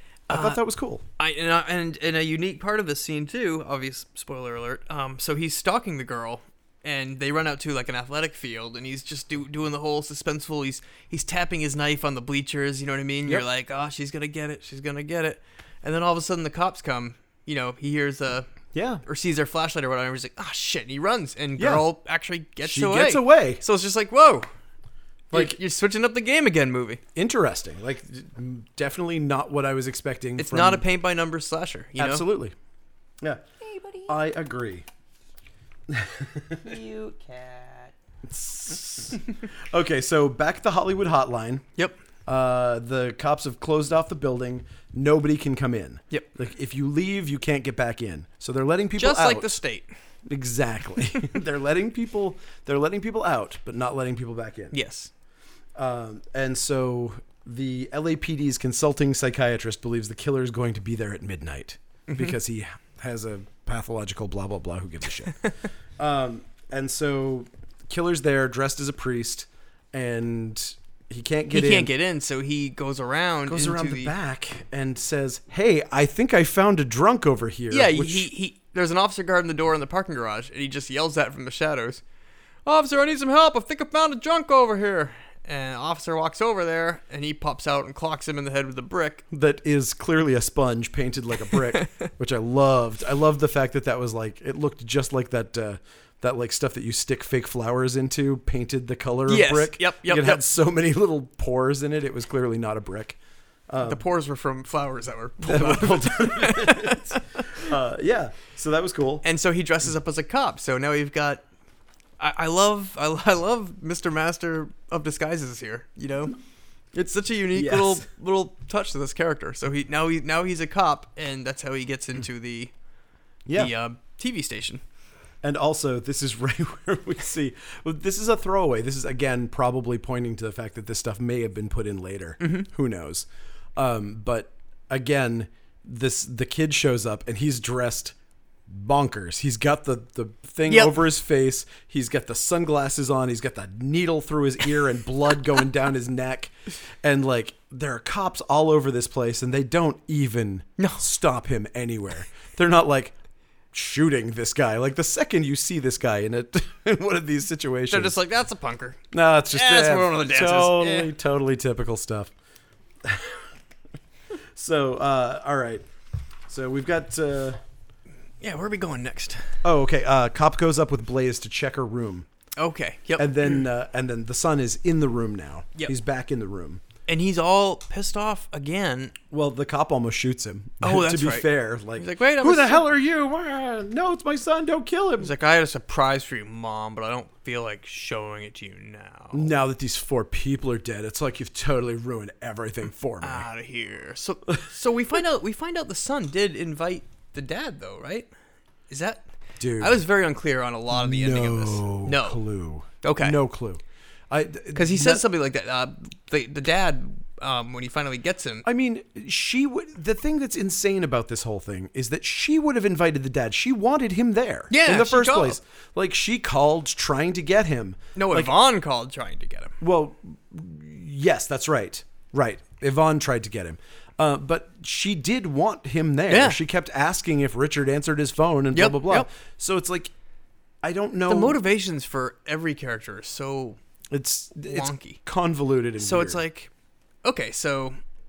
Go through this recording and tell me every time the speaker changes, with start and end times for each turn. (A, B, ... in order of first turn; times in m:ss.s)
0:00.3-0:00.6 A
0:00.3-0:01.0 B
0:01.2-0:18.5 A
0:18.7-0:19.0 B
0:19.0-0:24.5 A
0:21.6-0:21.8 B
0:22.6-0:23.6 B
0:25.3-0:25.6 B
0:25.3-0:27.0 A
0:27.2-0:30.8 B
0:30.4-0:32.2 A
0:32.0-0:32.5 B
0:33.6-0:34.1 A
0:34.1-0:34.8 B
0:35.9-0:36.8 B
0:36.6-0:37.9 A
0:38.3-0:41.6 B
0:42.2-0:49.6 B
0:49.0-0:49.9 A
0:50.2-0:54.7 B
0:54.7-0:55.1 A
0:55.7-1:05.4 B
1:06.0-1:11.9 B
1:11.5-1:14.1 A
1:13.5-1:18.3 B
1:17.7-1:22.0 A
1:22.6-1:29.2 A
1:29.3-1:43.2 B
1:31.5-1:32.1 A
1:39.3-1:40.4 A
1:43.7-1:44.0 B
1:43.8-1:47.6 A
1:45.4-1:49.2 B
1:49.2-1:51.4 A
1:52.2-1:56.4 A
1:56.9-2:02.7 A
1:57.5-1:58.0 B
2:03.4-2:03.7 B
2:03.5-2:04.8 A
2:05.4-2:18.1 B
2:12.4-2:12.7 A
2:18.7-2:33.1 B
2:20.7-2:21.0 A
2:33.7-2:38.2 B
2:37.9-2:41.1 A
2:39.1-2:42.3 B
2:43.0-2:43.4 B
2:44.5-2:45.8 B
2:46.5-2:47.6 B
2:48.4-2:49.4 A
2:49.6-2:52.3 B
2:52.6-2:53.6 A
2:53.2-2:56.8 B
2:57.1-2:59.1 A
2:59.3-3:05.3 B
3:00.8-3:02.8 A
3:05.2-3:09.5 A
3:09.3-3:13.4 B
3:13.2-3:18.3 A
3:18.9-3:19.2 A
3:19.6-3:20.0 B
3:19.8-3:22.4 A
3:20.9-3:25.2 B
3:23.0-3:23.4 A
3:24.7-3:28.6 A
3:28.6-3:38.5 B
3:34.7-3:35.6 A
3:38.2-3:39.7 A
3:39.8-3:50.1 B
3:46.3-3:46.6 A
3:48.7-3:49.3 A
3:50.8-3:51.6 B
3:51.3-3:53.8 A
3:54.1-3:56.4 B
3:54.7-3:55.2 A
3:56.0-3:56.7 A
3:57.2-3:58.0 A